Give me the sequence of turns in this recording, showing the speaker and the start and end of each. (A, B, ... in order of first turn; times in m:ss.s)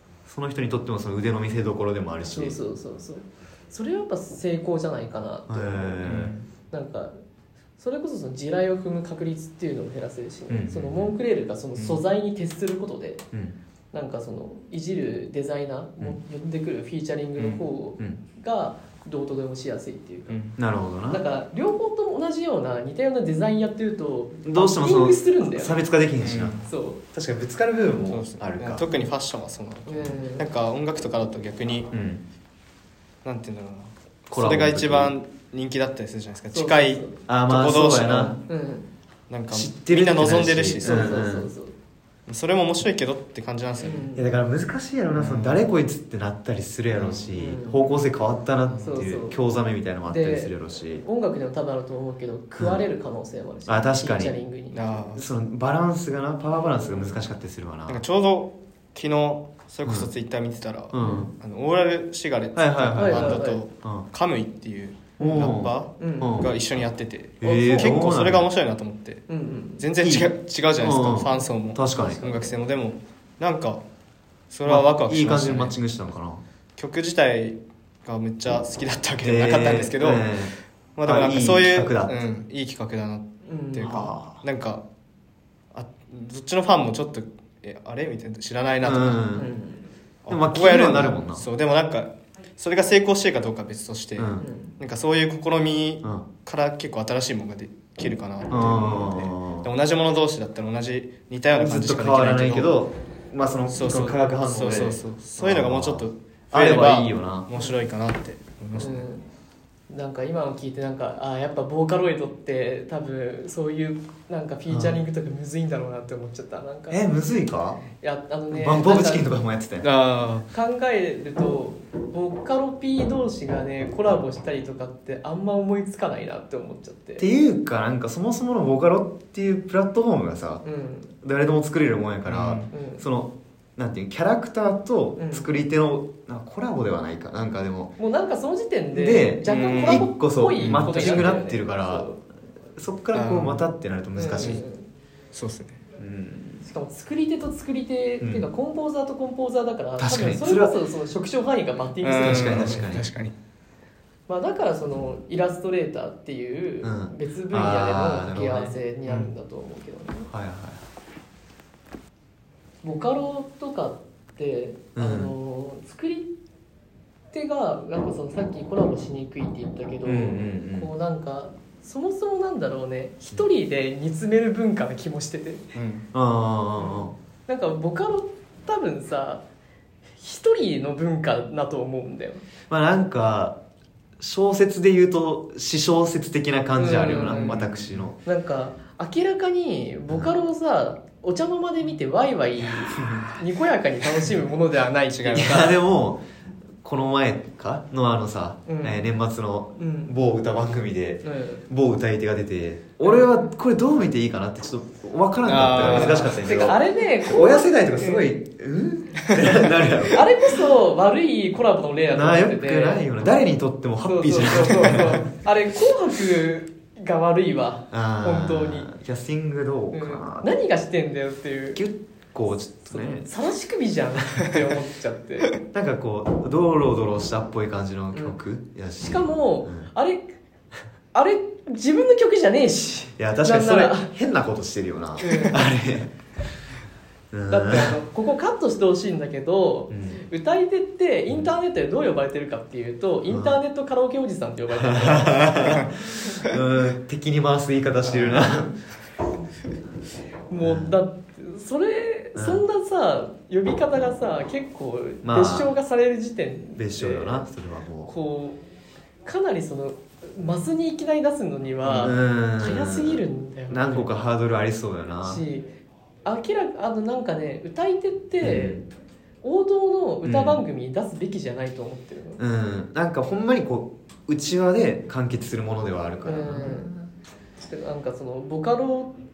0:00.3-0:02.6 A
0:02.3-0:07.2 B
0:05.5-0:06.3 A
0:06.0-0:06.4 C
0:07.8-0:13.2 B
0:10.5-0:11.1 A
0:11.8-0:12.0 C
0:13.3-0:13.6 A
0:13.9-0:20.4 B
0:17.4-0:17.6 C
0:20.3-0:20.6 C
0:20.6-0:21.2 A
0:21.1-0:25.8 B
0:24.4-0:28.8 A
0:26.2-0:26.7 C
0:26.6-0:27.0 B
0:28.1-0:31.9 C
0:29.9-0:30.5 B
0:31.9-0:32.2 A
0:33.2-0:38.4 C
0:34.3-0:35.2 A
0:36.5-0:37.2 B
0:37.3-0:38.4 A
0:38.5-0:38.9 B
0:39.3-0:41.2 C
0:39.5-0:41.5 A
0:40.8-0:41.7 B
0:42.3-0:44.1 C
0:43.8-0:44.3 B
0:44.2-0:51.0 A
0:45.1-0:45.6 C
0:47.0-0:47.3 C
0:47.4-0:47.8 B
0:48.7-0:49.1 C
0:48.8-0:49.4 B
0:50.0-0:55.1 B
0:53.7-0:54.4 A
0:54.7-0:55.3 C
0:55.2-0:58.0 A
0:56.5-0:57.1 B
0:57.9-1:09.3 C
1:00.9-1:01.3 A
1:01.0-1:01.3 B
1:02.6-1:04.1 A
1:03.0-1:03.6 B
1:05.2-1:06.4 B
1:05.2-1:06.5 A
1:07.4-1:08.5 A
1:07.4-1:08.0 B
1:09.3-1:09.9 B
1:09.8-1:13.8 C
1:10.0-1:12.3 A
1:11.9-1:12.5 B
1:14.5-1:15.8 C
1:14.7-1:16.4 A
1:16.8-1:24.8 C
1:19.2-1:20.5 A
1:21.0-1:22.2 A
1:23.4-1:24.1 B
1:23.8-1:24.4 A
1:25.7-1:29.3 C
1:28.8-1:29.5 A
1:29.3-1:29.9 B
1:30.2-1:42.8 C
1:30.3-1:31.4 A
1:34.2-1:34.5 A
1:34.4-1:34.7 B
1:38.5-1:39.7 A
1:41.5-1:47.5 A
1:43.7-1:49.0 C
1:48.8-1:49.2 B
1:49.9-1:57.0 B
1:54.7-1:55.0 A
1:56.9-1:57.8 A
1:58.0-1:59.3 B
1:58.5-1:59.9 A
1:59.8-2:00.5 C
2:00.5-2:07.2 B
2:07.2-2:10.6 A
2:10.6-2:11.1 B
2:11.2-2:17.9 A
2:12.3-2:12.7 C
2:12.7-2:13.0 B
2:15.2-2:15.5 B
2:18.0-2:22.2 B
2:18.9-2:22.1 A
2:19.5-2:20.0 C
2:20.6-2:21.3 C
2:22.8-2:24.6 A
2:23.1-2:23.6 C
2:24.2-2:24.9 B
2:25.3-2:25.8 C
2:26.0-2:26.6 A
2:26.6-2:32.9 B
2:28.2-2:28.5 A
2:30.0-2:30.7 A
2:32.0-2:33.3 C
2:32.2-2:33.1 A
2:34.3-2:40.3 B
2:36.8-2:39.3 A
2:40.3-2:40.8 A
2:42.8-2:46.3 B
2:45.0-2:45.3 A
2:47.3-2:55.6 B
2:50.0-2:50.9 A
2:55.7-2:56.1 C
2:56.1-2:57.1 A
2:56.8-2:59.4 B
3:00.2-3:02.4 B
3:02.7-3:03.6 A
3:04.2-3:08.2 A
3:06.8-3:07.6 B
3:07.3-3:08.1 C
3:08.2-3:15.8 B
3:13.0-3:13.2 C
3:15.1-3:15.7 C
3:15.3-3:16.2 A
3:16.8-3:30.3 A
3:18.7-3:19.1 B
3:19.8-3:20.1 B
3:21.2-3:21.6 B
3:23.0-3:23.3 B
3:25.4-3:26.5 C
3:26.0-3:28.3 B
3:30.1-3:33.1 B
3:32.1-3:35.2 A
3:34.0-3:38.9 B
3:37.9-3:40.5 A
3:39.9-3:41.8 B
3:41.8-3:43.3 A
3:42.9-3:45.5 B
3:45.7-3:49.9 A
3:48.1-3:48.4 B
3:49.0-3:50.2 B
3:51.1-3:54.1 B
3:53.2-3:56.1 A
3:55.2-3:55.7 B
3:57.3-3:58.0 A
3:57.5-4:05.9 B
3:59.9-4:00.2 A
4:03.3-4:03.6 A
4:04.7-4:08.7 A
4:08.0-4:08.5 C
4:10.5-4:17.5 B
4:10.6-4:11.0 A
4:12.4-4:12.6 A
4:15.2-4:15.7 A
4:16.8-4:18.1 A
4:18.1-4:18.6 B
4:19.2-4:24.1 B
4:21.8-4:25.4 A
4:25.2-4:25.7 B
4:26.2-4:28.8 B
4:28.4-4:28.8 A
4:29.4-4:32.4 B
4:30.2-4:30.6 A
4:32.4-4:37.1 A
4:36.2-4:36.9 B
4:37.7-4:39.1 B